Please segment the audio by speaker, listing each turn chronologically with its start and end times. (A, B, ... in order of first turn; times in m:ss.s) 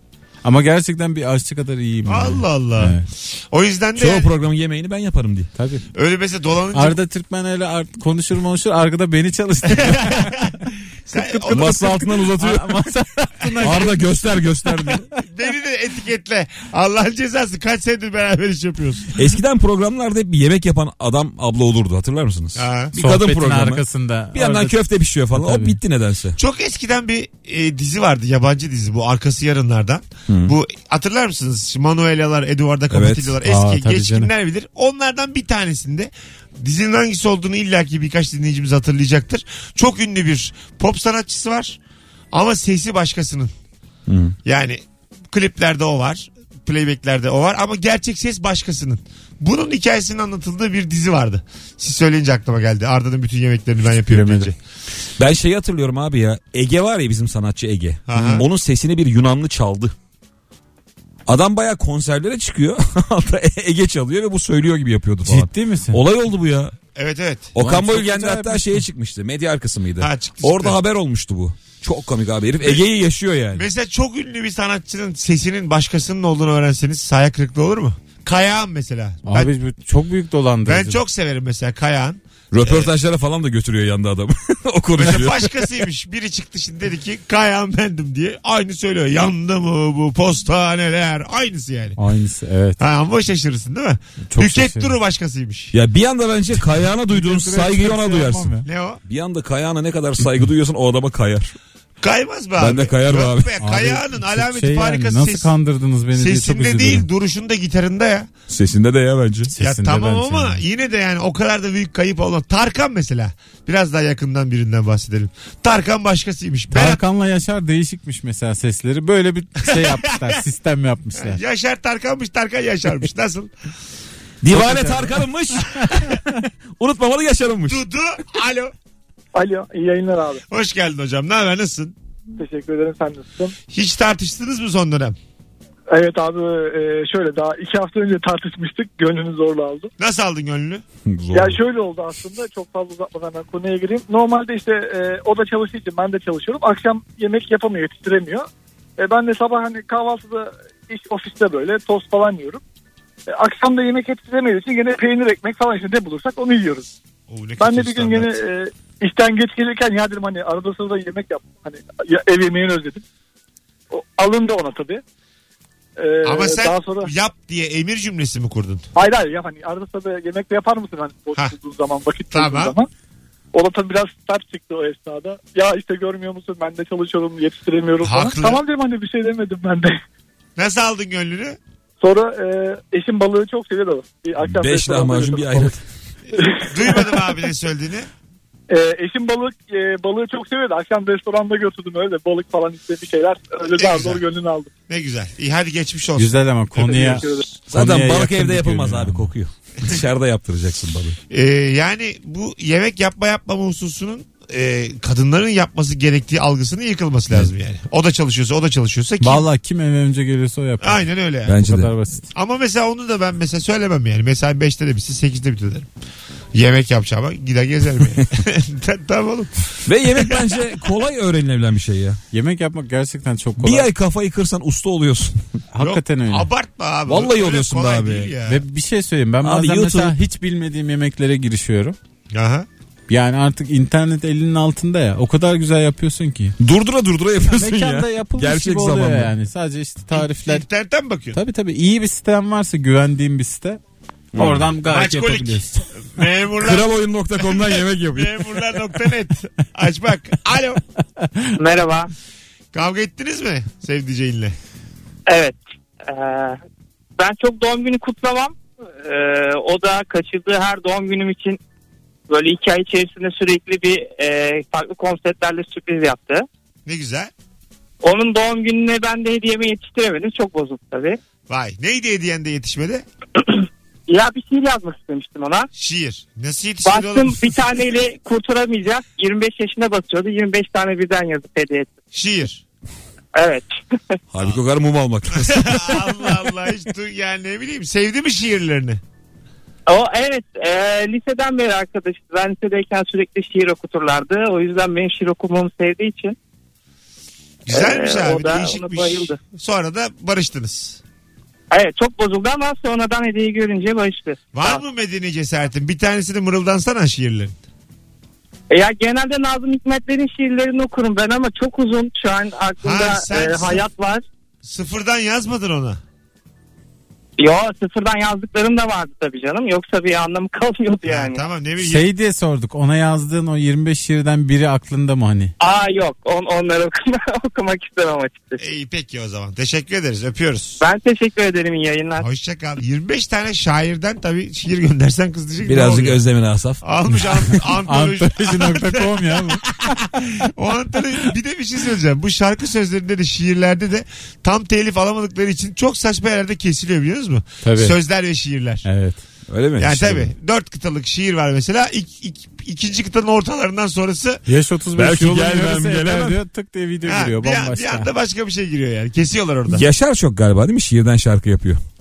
0:00.4-0:03.0 A
0:02.0-0:03.0 B
0:03.5-0:04.3 B
0:04.0-0:05.5 C
0:05.5-0:05.8 A
0:05.9-0:07.0 B
0:06.7-0:10.6 A
0:09.7-0:12.1 B
0:11.2-0:15.0 A
0:11.5-0:12.7 C
0:13.6-0:15.1 C
0:15.2-0:19.1 B
0:19.1-0:26.4 C
0:22.6-0:22.9 B
0:22.9-0:24.8 A
0:25.3-0:25.8 A
0:26.4-0:41.8 B
0:30.3-0:30.5 C
0:32.9-0:33.3 C
0:33.4-0:34.3 A
0:42.3-0:43.5 B
0:44.1-0:44.3 C
0:44.4-0:54.6 B
0:54.1-0:54.5 A
0:55.2-0:59.9 C
0:58.1-0:58.5 B
0:58.1-0:58.4 A
1:01.3-1:06.8 C
1:05.2-1:06.0 A
1:06.9-1:07.5 B
1:07.5-1:13.6 C
1:07.6-1:08.9 A
1:10.0-1:10.8 B
1:13.5-1:19.5 B
1:19.2-1:21.0 A
1:20.6-1:22.9 B
1:22.5-1:25.7 C
1:25.0-1:32.0 B
1:32.0-1:32.8 A
1:32.8-1:35.7 B
1:34.3-1:35.0 A
1:35.7-1:41.5 C
1:37.1-1:38.6 A
1:38.6-1:39.0 B
1:42.0-1:45.5 B
1:42.6-1:43.6 C
1:43.6-1:47.0 A
1:46.1-1:48.3 B
1:48.5-1:49.5 C
1:49.5-1:50.6 A
1:49.6-1:57.0 B
1:56.7-2:01.4 A
1:59.6-2:00.4 B
2:01.2-2:03.5 B
2:04.4-2:06.2 C
2:04.5-2:06.2 A
2:06.8-2:07.8 C
2:07.7-2:08.7 B
2:09.3-2:10.4 D
2:10.5-2:12.0 B
2:12.4-2:13.6 D
2:13.7-2:15.2 B
2:15.9-2:19.9 D
2:20.0-2:20.8 B
2:21.0-2:21.6 C
2:21.3-2:28.5 D
2:29.0-2:32.6 D
2:33.3-2:36.9 D
2:37.3-2:38.4 B
2:37.6-2:43.0 D
2:43.9-2:45.0 D
2:46.0-2:47.1 D
2:46.2-2:48.9 B
2:49.0-2:52.9 D
2:52.3-2:52.8 B
2:53.5-3:00.0 D
2:58.0-2:58.6 B
3:00.6-3:01.6 B
3:02.0-3:05.7 D
3:04.4-3:05.8 C
3:06.3-3:07.2 D
3:06.4-3:08.1 B
3:08.7-3:14.7 D
3:13.8-3:14.2 B
3:14.9-3:17.4 B
3:16.2-3:19.3 A
3:16.8-3:17.4 D
3:17.7-3:21.2 C
3:21.3-3:29.4 B
3:29.2-3:32.3 A
3:30.8-3:31.6 B
3:31.4-3:31.9 C
3:32.3-3:35.9 B
3:36.5-3:40.6 B
3:39.8-3:42.2 C
3:42.3-3:43.9 A
3:43.6-3:45.4 C
3:45.7-3:46.5 A
3:45.8-3:48.6 B
3:47.1-3:48.3 C
3:48.4-3:52.0 A
3:49.4-3:50.2 C
3:52.3-3:52.7 B
3:53.1-3:56.6 A
3:56.6-3:59.3 C
3:57.4-4:00.6 A
4:00.1-4:01.4 B
4:01.3-4:03.8 A
4:04.3-4:04.7 C
4:04.3-4:05.8 A
4:04.8-4:10.8 B
4:06.6-4:08.4 C
4:11.2-4:11.5 A
4:11.6-4:12.1 E
4:12.7-4:14.6 B
4:15.3-4:16.6 E
4:17.2-4:21.6 E
4:22.3-4:26.4 E
4:26.8-4:27.3 B
4:28.0-4:31.2 E
4:31.5-4:33.0 B
4:33.5-4:35.7 E
4:35.7-4:37.6 B
4:36.8-4:41.9 E
4:42.1-4:42.6 B
4:43.3-4:44.2 E
4:44.3-4:46.1 C
4:45.3-4:49.0 B
4:49.9-4:56.4 E
4:57.6-5:01.0 B
4:57.7-4:59.4 E
5:01.7-5:04.8 E
5:04.5-5:07.6 B
5:08.7-5:14.2 E
5:12.8-5:13.8 B
5:14.6-5:16.0 B
5:17.4-5:21.4 E
5:21.0-5:22.1 B
5:21.8-5:25.5 A
5:25.6-5:28.6 E
5:28.6-5:30.8 B
5:30.8-5:32.2 E
5:32.2-5:36.2 B
5:35.6-5:36.8 C
5:36.8-5:48.8 B
5:37.8-5:39.7 A
5:47.6-5:48.0 A
5:48.8-5:49.2 A
5:49.5-5:50.3 C
5:49.8-5:54.4 B
5:54.5-5:58.1 A
5:54.9-5:56.4 C
5:57.0-5:59.8 B
5:59.7-6:01.8 C